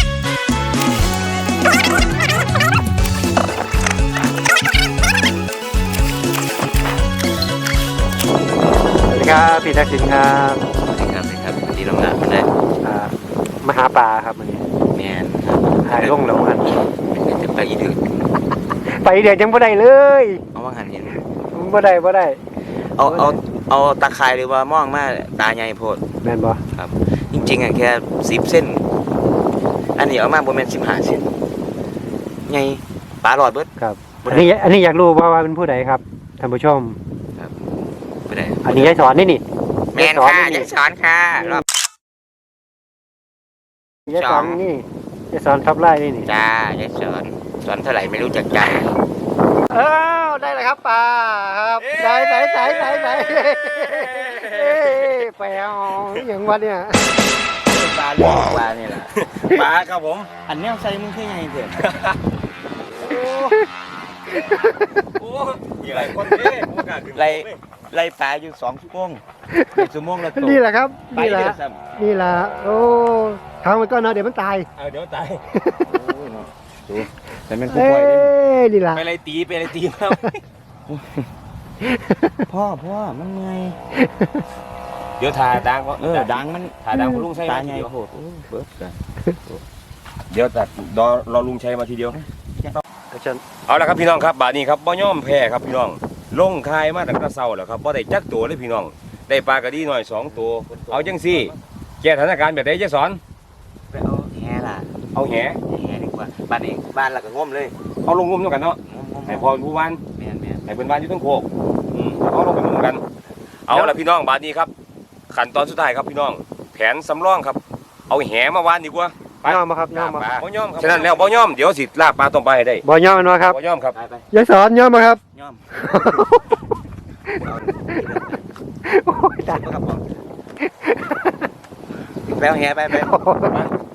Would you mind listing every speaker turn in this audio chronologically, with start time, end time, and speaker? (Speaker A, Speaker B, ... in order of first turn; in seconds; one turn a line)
Speaker A: 9.1-10.6
Speaker B: 10.8-12.5
Speaker A: 12.8-14.6
Speaker B: 14.9-18.3
Speaker A: 15.8-16.8
Speaker A: 18.9-20.4
Speaker B: 20.5-21.2
Speaker A: 21.5-22.4
Speaker B: 22.9-26.0
Speaker A: 23.0-23.4
Speaker A: 26.2-26.6
Speaker B: 26.7-28.8
Speaker B: 29.9-31.3
Speaker B: 32.5-33.7
Speaker A: 33.8-37.0
Speaker B: 34.2-34.5
Speaker B: 38.3-38.9
Speaker A: 38.6-39.4
Speaker B: 39.9-41.6
Speaker A: 39.9-40.7
Speaker A: 44.1-46.3
Speaker B: 44.1-44.6
Speaker B: 46.2-48.9
Speaker A: 49.7-57.0
Speaker C: 51.8-53.2
Speaker C: 53.8-55.2
Speaker B: 57.7-59.7
Speaker C: 59.1-60.3
Speaker B: 60.5-61.9
Speaker C: 61.8-62.1
Speaker A: 63.0-63.7
Speaker C: 63.1-63.5
Speaker A: 64.5-64.8
Speaker C: 64.9-67.6
Speaker B: 65.8-71.8
Speaker A: 69.5-74.7
Speaker C: 74.8-75.4
Speaker A: 75.5-75.8
Speaker B: 75.8-78.3
Speaker A: 77.7-79.0
Speaker C: 78.9-80.4
Speaker B: 80.9-81.3
Speaker A: 81.8-82.2
Speaker B: 82.4-83.8
Speaker A: 84.0-84.3
Speaker C: 85.2-87.9
Speaker B: 86.0-86.8
Speaker A: 86.9-87.2
Speaker B: 87.3-89.6
Speaker C: 90.3-92.2
Speaker A: 93.1-93.4
Speaker C: 93.7-103.2
Speaker B: 100.3-101.5
Speaker B: 103.9-105.0
Speaker C: 105.1-105.6
Speaker B: 105.7-107.7
Speaker C: 108.0-110.0
Speaker B: 108.9-109.5
Speaker B: 110.1-110.6
Speaker C: 110.7-113.0
Speaker C: 113.7-114.7
Speaker C: 115.3-119.6
Speaker A: 119.4-120.3
Speaker B: 119.9-121.5
Speaker C: 120.4-122.8
Speaker A: 122.8-123.6
Speaker C: 123.5-123.9
Speaker B: 123.9-124.2
Speaker A: 124.3-125.2
Speaker B: 125.3-126.2
Speaker A: 125.7-126.4
Speaker B: 127.3-128.4
Speaker A: 128.8-129.6
Speaker B: 129.4-130.0
Speaker A: 130.8-131.3
Speaker B: 132.3-133.1
Speaker A: 132.9-133.6